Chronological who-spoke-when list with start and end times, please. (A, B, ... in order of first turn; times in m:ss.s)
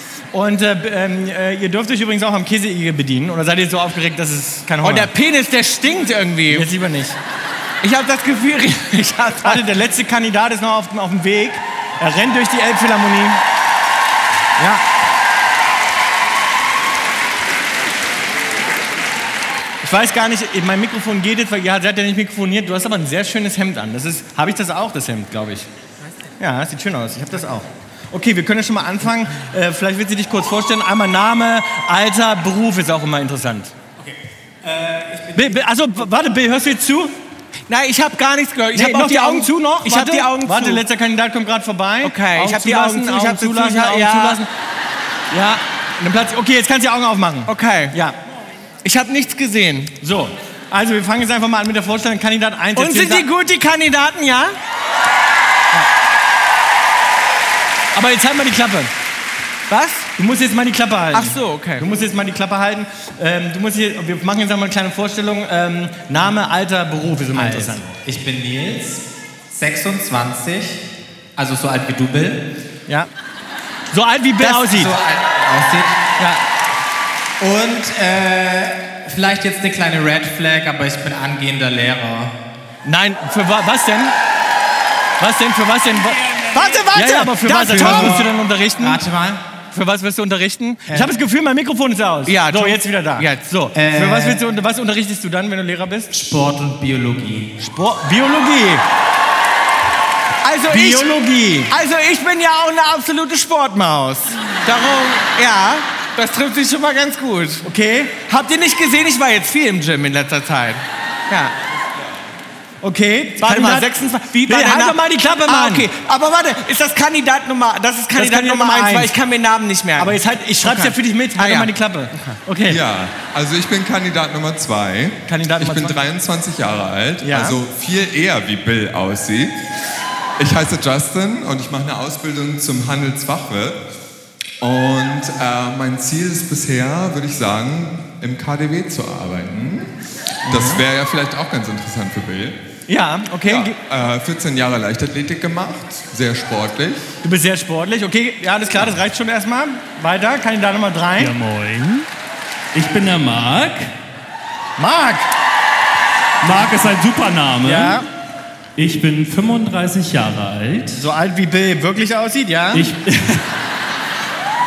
0:00.3-0:05.1 A
0:04.8-0:06.7 B
0:06.5-0:07.2 A
0:07.8-0:09.7 B
0:09.4-0:13.4 A
0:14.6-0:14.8 A
0:19.8-0:25.7 A
0:26.4-0:33.7 A
0:34.0-0:35.6 C
0:35.4-0:37.1 A
0:37.7-0:40.8 B
0:38.8-0:44.5 A
0:42.0-0:44.4 B
0:45.3-0:48.1 A
0:47.5-0:47.9 B
0:48.8-0:49.9 B
0:50.0-0:53.2 A
0:52.8-0:54.6 B
0:57.9-0:58.9 A
0:59.7-1:00.1 B
1:00.2-1:07.9 A
1:01.1-1:01.8 B
1:07.3-1:10.8 C
1:11.4-1:12.4 C
1:13.9-1:14.9 A
1:14.4-1:16.0 C
1:17.4-1:22.3 C
1:22.8-1:24.1 A
1:25.2-1:26.2 A
1:26.2-1:26.8 C
1:26.5-1:28.2 B
1:26.9-1:29.0 A
1:27.4-1:29.4 C
1:29.7-1:36.1 A
1:32.3-1:33.4 B
1:33.8-1:34.4 C
1:36.1-1:37.5 C
1:37.6-1:38.8 A
1:40.4-1:41.1 B
1:40.7-1:41.7 A
1:41.7-1:47.6 B
1:47.6-1:48.2 A
1:48.3-1:51.5 B
1:52.8-1:53.9 A
1:53.4-2:02.4 B
1:54.5-1:55.9 A
1:58.2-1:59.1 A
2:00.0-2:02.8 A
2:02.7-2:09.6 D
2:05.3-2:06.0 A
2:07.2-2:07.6 A
2:10.4-2:13.8 D
2:14.6-2:19.9 D
2:20.5-2:20.8 A
2:20.5-2:22.6 D
2:22.9-2:23.8 A
2:23.5-2:27.1 D
2:27.2-2:31.3 A
2:31.2-2:32.1 E
2:32.7-2:33.9 E
2:34.8-2:35.3 A
2:36.4-2:38.0 E
2:37.6-2:38.1 A
2:38.8-2:41.0 E
2:41.0-2:42.9 A
2:42.7-2:43.5 E